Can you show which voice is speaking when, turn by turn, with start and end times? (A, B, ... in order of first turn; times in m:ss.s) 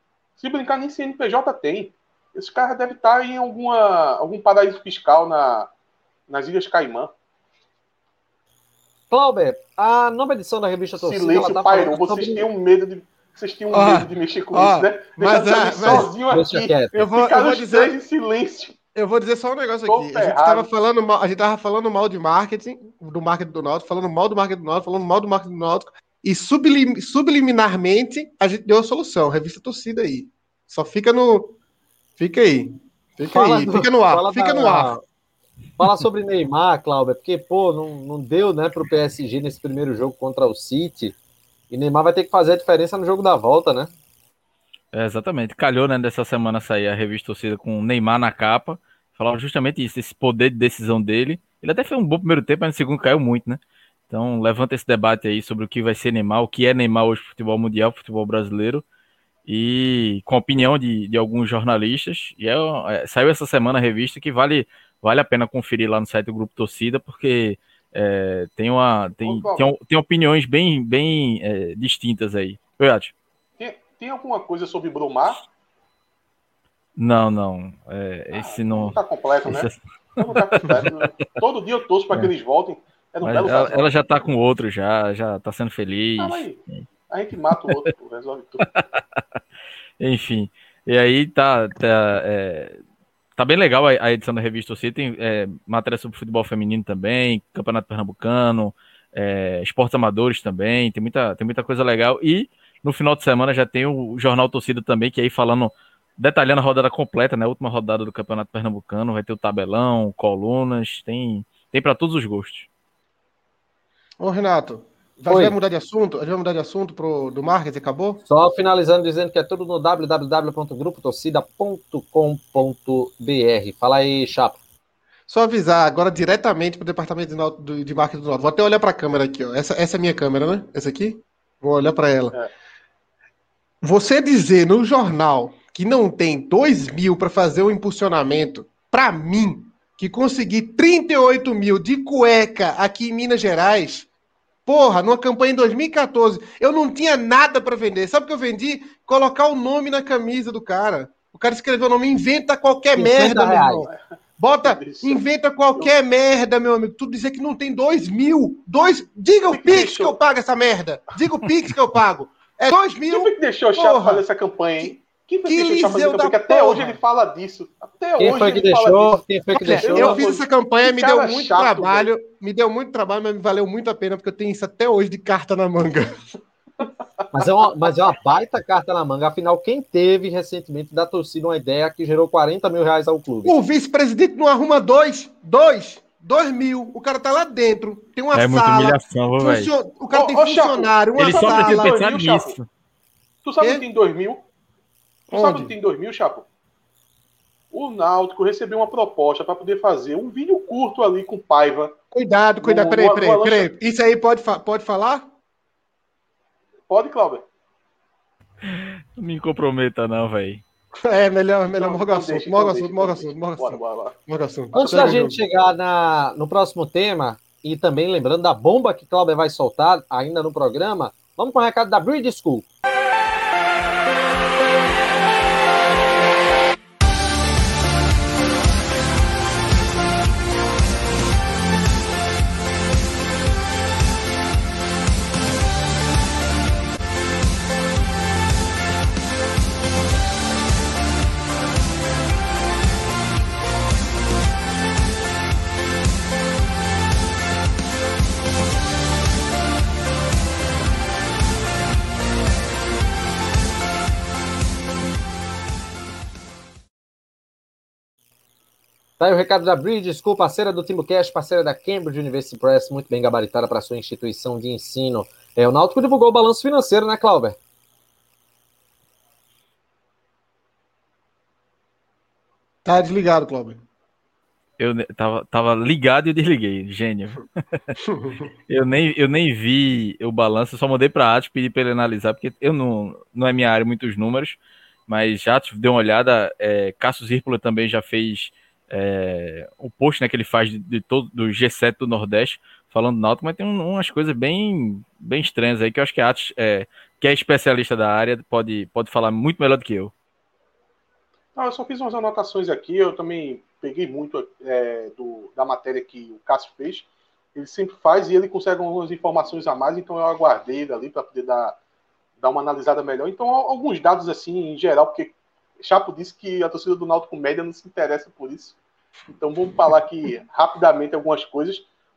0:00.4-0:05.7 A
0:06.3-0:07.1 A
0:09.1-0:12.5 B
0:11.0-0:18.8 A
0:13.7-0:16.1 C
0:15.8-0:17.0 B
0:16.9-0:18.0 C
0:19.0-0:31.6 C
0:19.9-0:20.7 A
0:32.2-0:34.9 C
0:33.3-0:35.0 B
0:35.8-0:41.2 B
0:41.7-0:43.9 B
0:44.9-0:58.8 D
0:59.5-1:13.1 D
1:09.2-1:09.7 A
1:13.6-1:15.4 A
1:17.0-1:20.9 D
1:18.4-1:24.1 A
1:23.2-1:26.8 D
1:26.2-1:28.7 A
1:28.7-1:29.0 D
1:30.0-1:32.8 D
1:33.4-1:52.7 D
1:54.2-1:58.2 C
1:55.3-1:55.6 B
1:58.3-2:04.6 B
2:05.3-2:12.4 C
2:13.8-2:24.1 C
2:24.7-2:44.2 C
2:33.0-2:33.9 B
2:34.6-2:35.2 A
2:39.5-2:40.2 A
2:43.1-2:49.2 A
2:45.4-2:47.0 C
2:48.2-2:50.2 B
2:49.5-2:56.1 C
2:49.8-2:52.1 A
2:57.3-3:03.6 B
3:03.4-3:12.0 C
3:08.3-3:09.7 D
3:10.1-3:12.6 A
3:11.2-3:12.7 D
3:13.4-3:14.4 A
3:13.6-3:13.8 C
3:15.3-3:15.7 C
3:15.3-3:16.5 A
3:17.7-3:22.0 A
3:22.1-3:25.3 C
3:22.6-3:23.7 A
3:26.9-3:27.4 A
3:28.7-3:30.6 D
3:31.0-3:35.4 C
3:31.7-3:34.2 A
3:34.7-3:42.7 B
4:19.2-4:27.6 B
4:32.8-4:33.8 C
4:34.8-4:38.0 D
4:38.0-4:38.5 C
4:38.7-5:00.1 D
5:01.6-5:11.8 A
5:12.4-5:21.9 A